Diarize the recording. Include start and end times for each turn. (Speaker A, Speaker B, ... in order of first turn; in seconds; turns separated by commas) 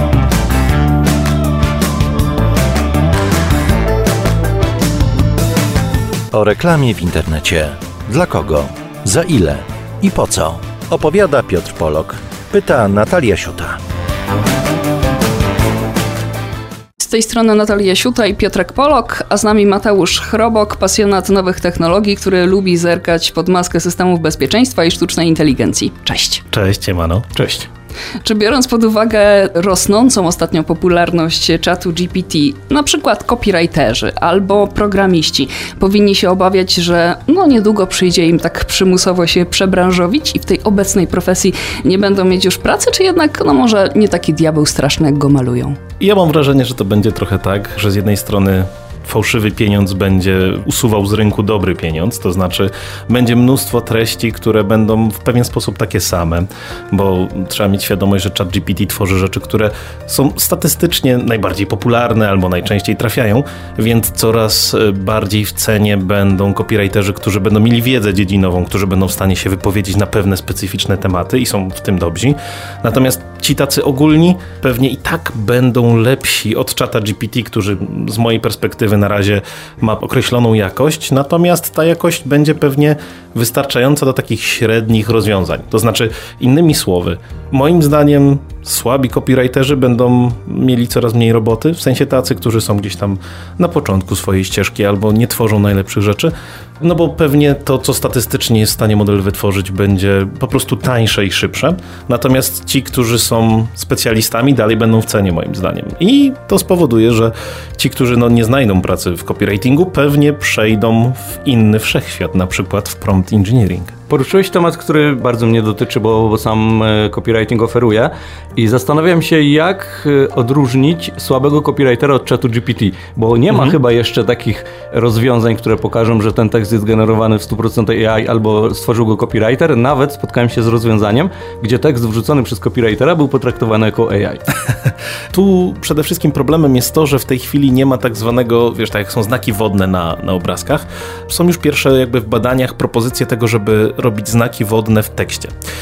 Speaker A: 6.3-13.8, Speaker B: 17.0-26.4, Speaker C: 26.5-27.7, Speaker B: 28.2-45.8, Speaker C: 46.0-113.9, Speaker D: 114.1-134.4, Speaker C: 123.5-123.8, Speaker C: 135.3-145.5